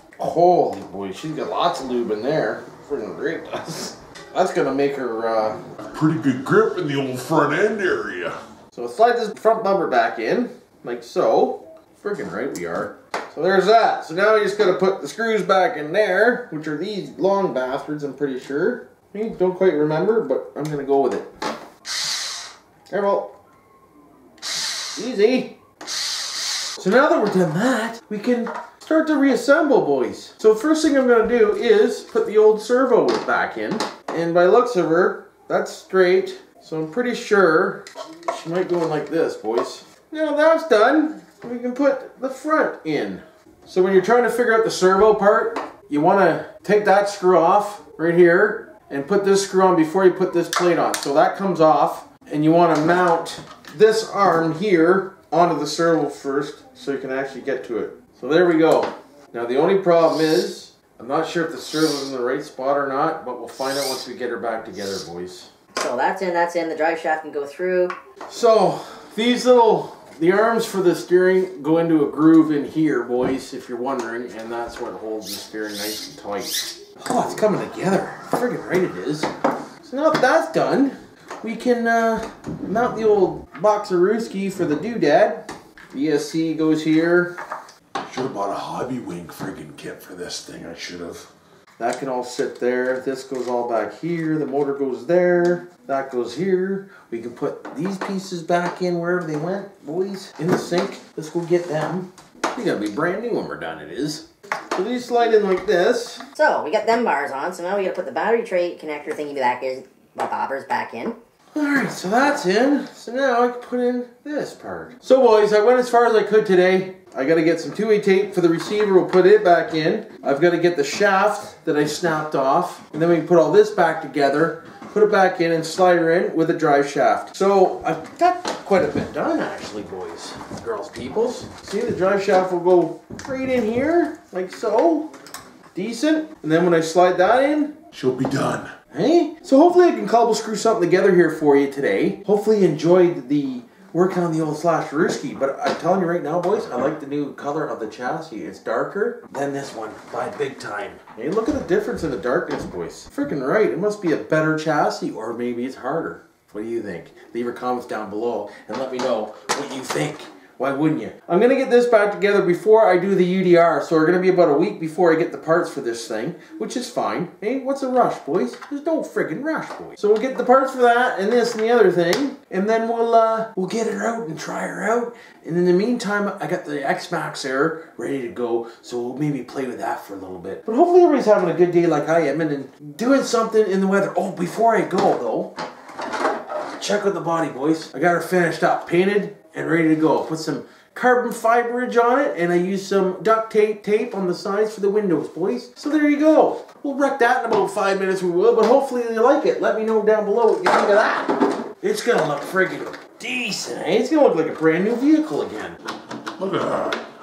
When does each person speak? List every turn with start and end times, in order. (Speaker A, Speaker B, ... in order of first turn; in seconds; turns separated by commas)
Speaker A: 0.2-5.6, Speaker B: 5.9-8.4, Speaker A: 8.7-21.3, Speaker A: 22.9-23.3, Speaker A: 24.9-25.6, Speaker A: 26.8-65.5, Speaker C: 65.8-67.9, Speaker A: 68.3-79.3, Speaker A: 79.8-87.3, Speaker A: 88.0-106.2, Speaker C: 106.3-111.2, Speaker A: 111.5-135.1, Speaker A: 135.7-185.5, Speaker B: 137.9-138.6, Speaker A: 186.7-205.8, Speaker B: 206.4-207.0